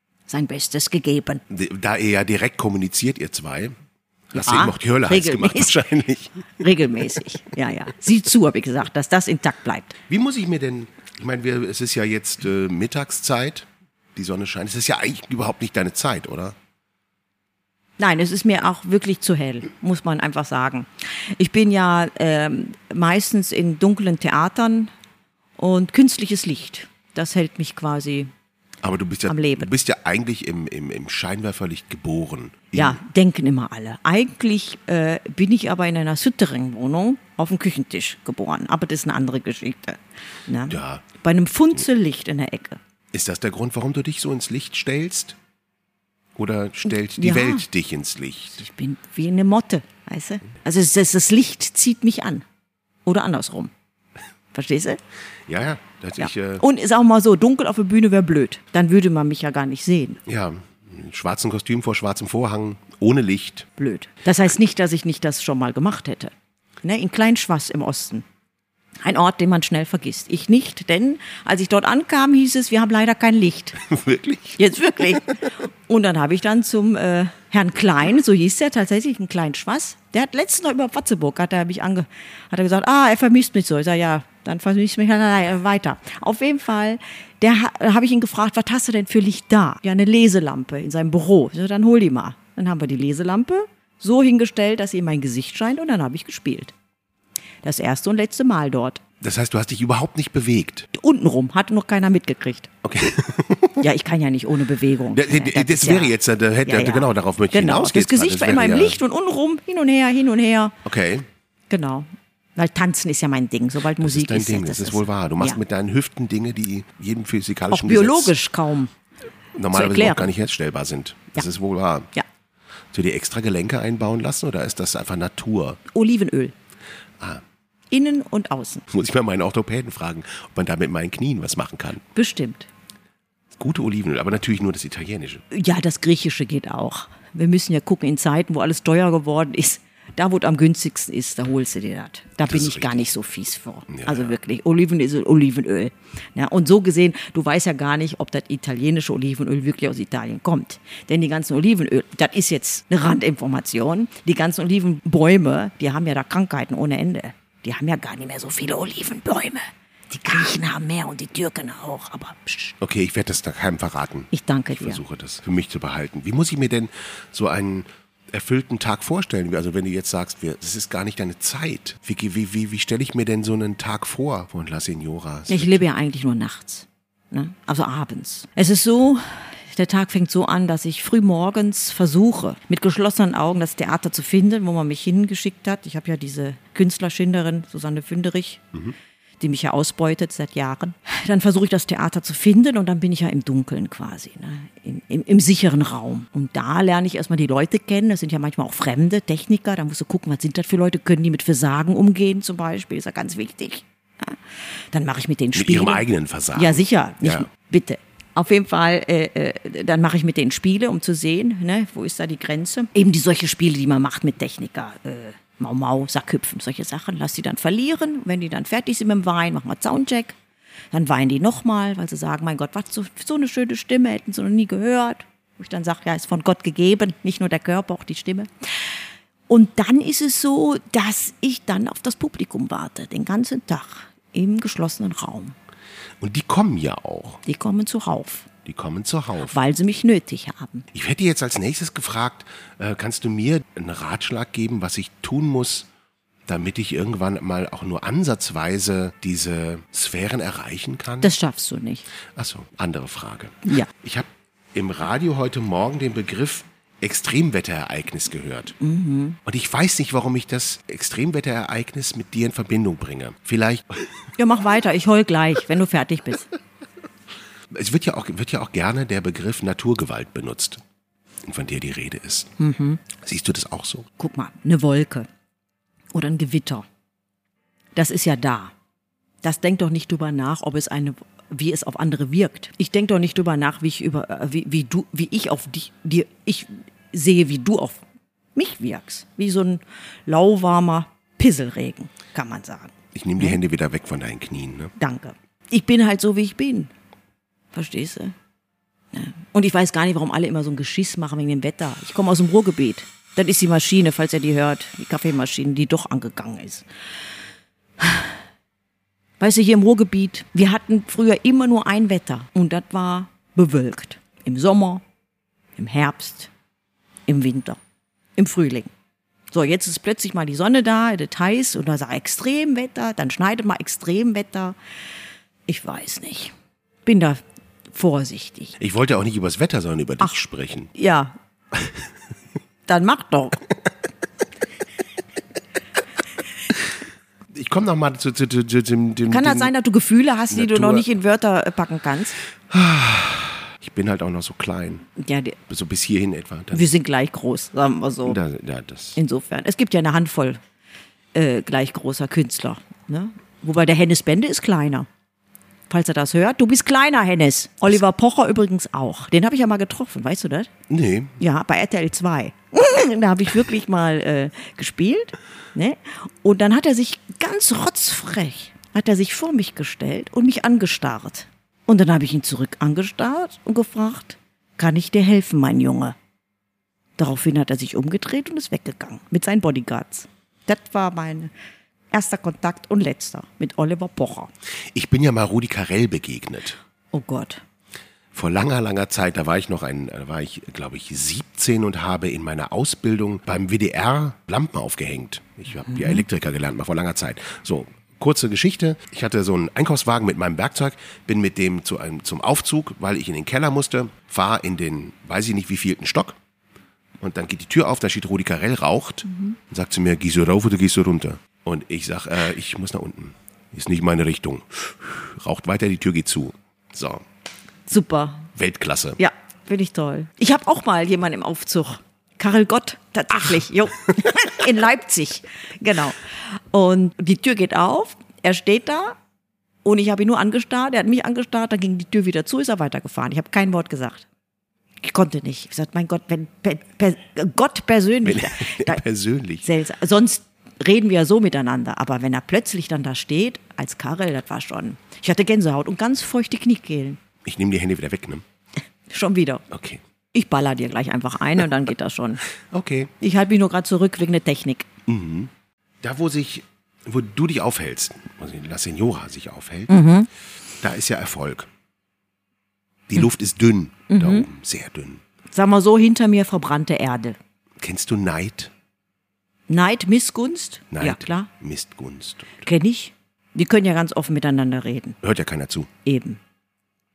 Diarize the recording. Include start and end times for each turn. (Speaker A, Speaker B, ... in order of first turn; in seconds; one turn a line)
Speaker A: 0.3-1.4
Speaker B: 1.5-3.7
Speaker B: 4.3-6.5
Speaker A: 4.3-5.8
Speaker A: 6.6-9.9
Speaker B: 10.1-16.6
Speaker A: 18.0-24.9
Speaker A: 25.6-28.3
Speaker B: 28.8-33.0
Speaker A: 29.3-29.7
Speaker A: 32.7-42.8
Speaker B: 40.7-41.1
Speaker B: 43.1-45.4
Speaker B: 46.3-48.6
Speaker A: 46.9-47.6
Speaker A: 48.6-52.4
Speaker A: 53.0-53.7
Speaker A: 54.5-55.0
Speaker B: 55.5-56.6
Speaker A: 56.2-60.2
Speaker B: 60.2-63.7
Speaker A: 63.8-66.3
Speaker A: 66.8-68.2
Speaker A: 69.0-73.8
Speaker B: 73.8-74.6
Speaker A: 74.6-96.7
Speaker A: 97.6-99.0
Speaker B: 99.2-100.9
Speaker A: 100.9-102.7
Speaker B: 102.8-103.8
Speaker A: 103.8-106.1
Speaker B: 105.1-109.0
Speaker A: 106.7-110.7
Speaker B: 110.8-111.3
Speaker A: 111.7-115.6
Speaker B: 114.0-118.3
Speaker A: 117.7-118.9
Speaker B: 119.5-122.1
Speaker A: 119.7-120.3
Speaker B: 122.9-125.8
Speaker A: 125.9-126.5
Speaker A: 127.9-128.8
Speaker B: 128.9-132.0
Speaker A: 132.1-132.7
Speaker B: 133.6-135.4
Speaker A: 135.5-162.8
Speaker B: 142.4-143.1
Speaker B: 143.9-144.3
Speaker B: 162.8-175.8
Speaker A: 164.3-165.0
Speaker A: 175.5-188.6
Speaker A: 189.4-204.4
Speaker A: 204.9-206.0
Speaker B: 205.5-207.5
Speaker A: 206.5-220.3
Speaker A: 220.9-228.9
Speaker A: 229.5-235.5
Speaker B: 236.2-237.4
Speaker A: 237.4-238.5
Speaker B: 238.6-239.6
Speaker A: 239.5-240.8
Speaker B: 240.9-245.9
Speaker B: 246.4-251.3
Speaker A: 251.2-252.0
Speaker B: 252.3-258.7
Speaker A: 258.8-259.4
Speaker B: 259.4-264.0
Speaker A: 264.4-266.5
Speaker B: 267.7-270.8
Speaker B: 271.4-272.5
Speaker A: 272.6-273.0
Speaker B: 273.1-274.1
Speaker A: 274.2-275.3
Speaker A: 276.1-276.9
Speaker A: 277.9-278.7
Speaker A: 279.4-288.0
Speaker A: 288.5-293.6
Speaker B: 293.1-294.9
Speaker A: 295.0-296.9
Speaker A: 297.7-298.3
Speaker A: 299.1-306.8
Speaker A: 308.0-308.3
Speaker A: 309.4-315.0
Speaker A: 315.8-316.5
Speaker A: 317.3-317.8
Speaker A: 318.4-318.9
Speaker A: 319.5-324.8
Speaker A: 325.7-326.5
Speaker A: 327.0-327.4
Speaker A: 327.9-328.8
Speaker B: 328.8-330.9
Speaker A: 330.9-331.3
Speaker A: 332.9-333.6
Speaker B: 337.5-339.7
Speaker A: 339.3-342.4
Speaker B: 340.5-341.1
Speaker B: 342.7-345.1
Speaker A: 345.2-345.6
Speaker B: 345.7-346.9
Speaker A: 346.7-348.4
Speaker B: 348.2-349.2
Speaker A: 349.1-350.6
Speaker A: 351.3-355.1
Speaker A: 355.9-360.7
Speaker B: 360.9-361.4
Speaker A: 361.4-376.1
Speaker A: 377.2-381.5
Speaker A: 382.1-384.5
Speaker B: 384.9-386.8
Speaker A: 387.1-387.6
Speaker B: 388.3-406.4
Speaker A: 395.9-396.2
Speaker B: 407.2-417.2
Speaker A: 417.9-418.5
Speaker B: 418.6-419.2
Speaker A: 419.2-429.1
Speaker A: 429.8-434.2
Speaker A: 435.0-439.0
Speaker B: 438.2-439.7
Speaker A: 439.6-447.2
Speaker B: 447.4-448.4
Speaker A: 449.1-449.6
Speaker B: 449.7-450.0
Speaker A: 450.3-452.4
Speaker B: 452.6-453.1
Speaker A: 453.2-454.9
Speaker B: 455.1-459.9
Speaker A: 459.9-460.3
Speaker B: 460.8-461.7
Speaker B: 463.1-465.2
Speaker A: 464.1-464.5
Speaker A: 465.5-467.4
Speaker B: 467.8-468.7
Speaker A: 469.7-471.5
Speaker B: 470.9-472.6
Speaker A: 472.6-475.2
Speaker B: 475.2-475.9
Speaker A: 476.0-476.4